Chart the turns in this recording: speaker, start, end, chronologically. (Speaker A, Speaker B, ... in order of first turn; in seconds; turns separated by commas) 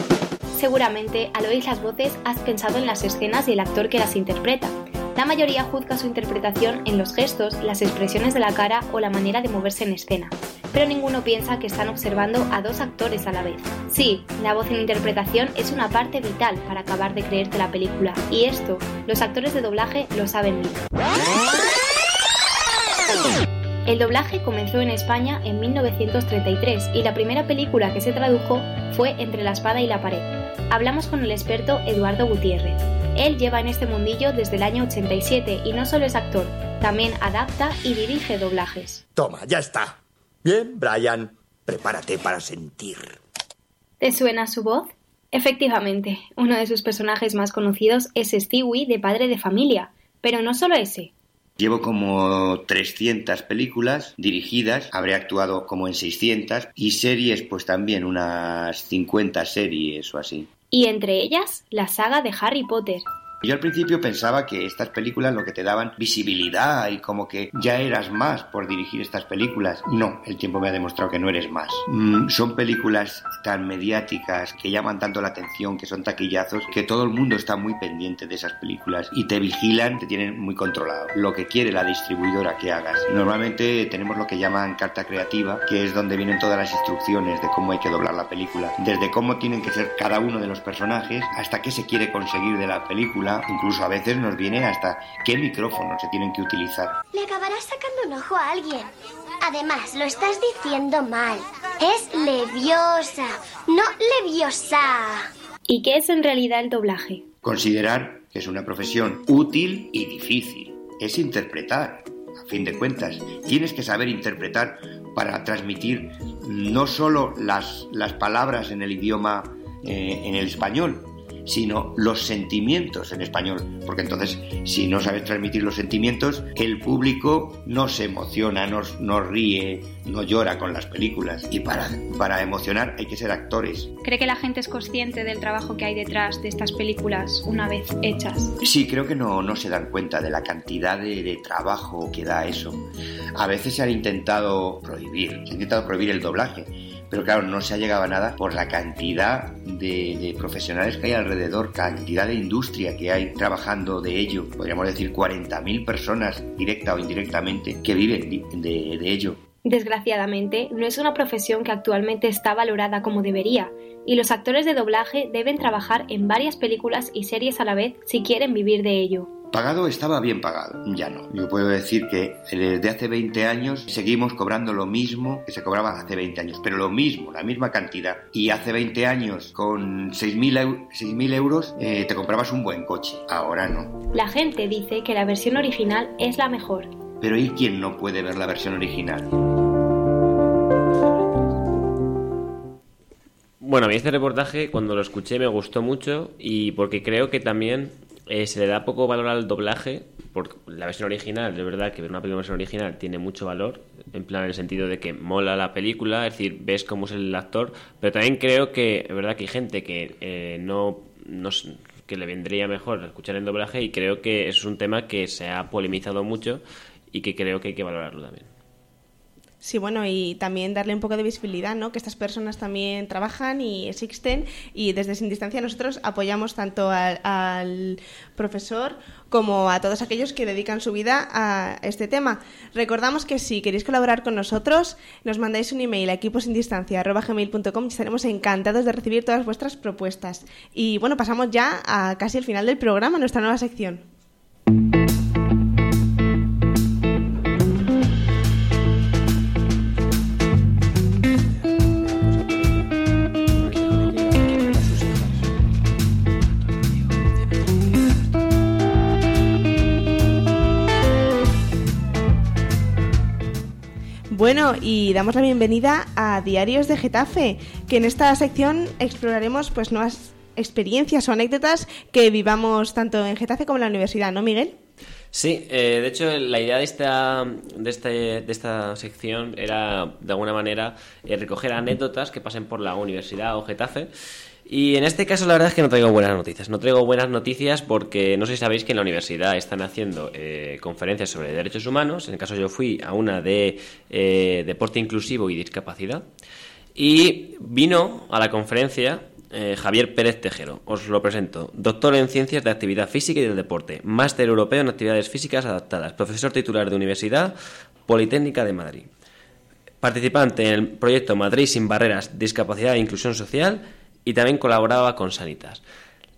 Speaker A: 0.6-20.8, Speaker A: 23.9-39.0, Speaker B: 39.1-43.2, Speaker A: 44.0-51.1, Speaker C: 51.6-60.5, Speaker A: 60.7-63.0, Speaker C: 63.4-97.0, Speaker D: 97.1-98.9, Speaker D: 99.4-105.3, Speaker A: 105.7-107.2, Speaker C: 107.4-133.9, Speaker A: 134.0-138.5, Speaker C: 138.6-142.8, Speaker C: 143.4-159.4, Speaker A: 159.7-169.3, Speaker C: 169.5-184.0, Speaker A: 184.1-186.9, Speaker C: 187.2-189.4, Speaker E: 193.6-218.5, Speaker F: 219.6-244.0, Speaker F: 264.3-274.7, Speaker E: 275.3-284.1, Speaker E: 284.7-296.2, Speaker E: 297.0-307.5, Speaker E: 308.1-309.1, Speaker E: 310.0-315.8